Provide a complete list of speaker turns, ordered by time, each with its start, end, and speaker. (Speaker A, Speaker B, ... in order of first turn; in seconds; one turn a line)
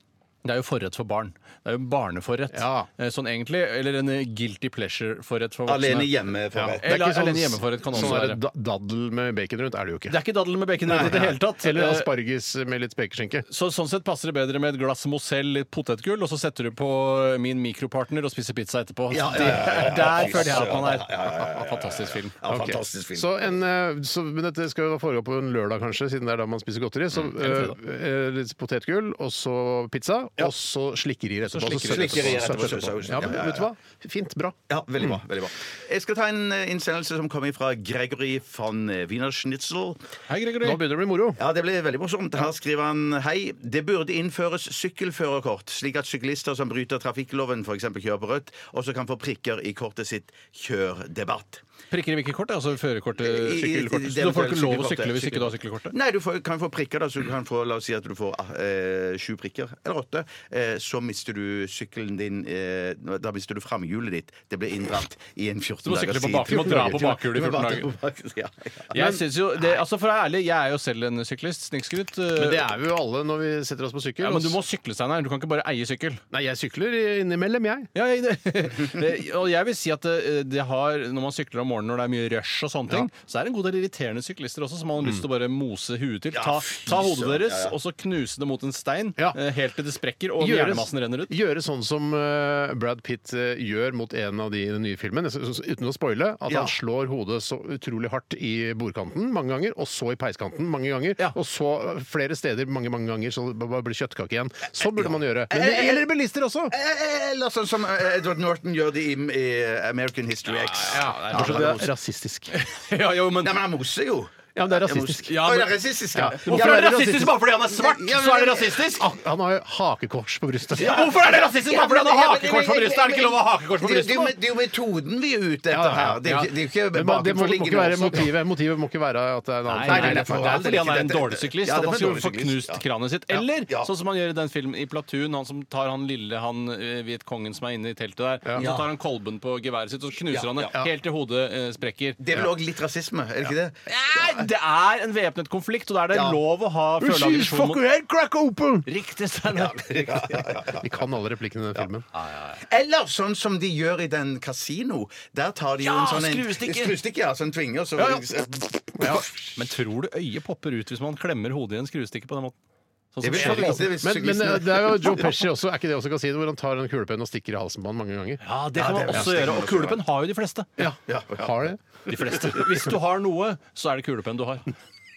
Speaker A: 0.4-6.1
Speaker B: 2.5-2.9
Speaker C: 5.7-6.8
Speaker B: 6.5-10.2
Speaker A: 6.8-8.4
Speaker A: 10.1-12.1
Speaker C: 10.8-11.3
Speaker B: 10.9-13.4
Speaker A: 13.5-22.3
Speaker C: 19.1-23.5
Speaker B: 22.5-35.2
Speaker A: 27.4-27.7
Speaker A: 31.4-33.2
Speaker C: 31.8-33.7
Speaker C: 34.7-40.0
Speaker A: 40.3-40.8
Speaker B: 40.6-41.4
Speaker C: 41.4-51.6
Speaker A: 51.9-55.9
Speaker C: 53.2-69.0
Speaker A: 65.8-67.9
Speaker B: 66.4-67.2
Speaker A: 68.9-72.7
Speaker B: 68.9-69.2
Speaker B: 72.3-74.6
Speaker A: 74.2-76.2
Speaker B: 76.3-77.9
Speaker A: 77.9-91.3
Speaker C: 86.3-87.7
Speaker B: 90.4-106.7
Speaker C: 96.5-96.7
Speaker C: 105.0-106.1
Speaker C: 106.7-111.8
Speaker A: 110.5-111.9
Speaker B: 110.9-112.5
Speaker A: 112.5-113.6
Speaker C: 113.4-118.8
Speaker B: 114.5-115.5
Speaker A: 115.3-115.7
Speaker B: 116.1-117.3
Speaker A: 116.3-119.1
Speaker B: 118.9-121.1
Speaker A: 120.8-124.3
Speaker C: 120.8-128.3
Speaker B: 125.7-130.7
Speaker A: 129.7-142.2
Speaker C: 129.8-132.8
Speaker C: 138.6-138.9
Speaker C: 140.3-140.8
Speaker C: 142.2-144.4
Speaker A: 143.9-147.8
Speaker C: 146.1-146.4
Speaker B: 147.0-148.9
Speaker A: 148.8-150.4
Speaker C: 149.5-150.9
Speaker B: 150.7-152.1
Speaker A: 152.1-152.6
Speaker C: 152.5-159.5
Speaker A: 155.8-156.9
Speaker B: 159.0-159.2
Speaker A: 159.5-162.6
Speaker A: 163.1-163.9
Speaker C: 163.2-165.4
Speaker B: 163.3-168.4
Speaker A: 168.4-170.7
Speaker C: 168.8-170.0
Speaker B: 169.0-169.5
Speaker B: 170.8-171.8
Speaker C: 171.1-171.7
Speaker A: 172.1-174.7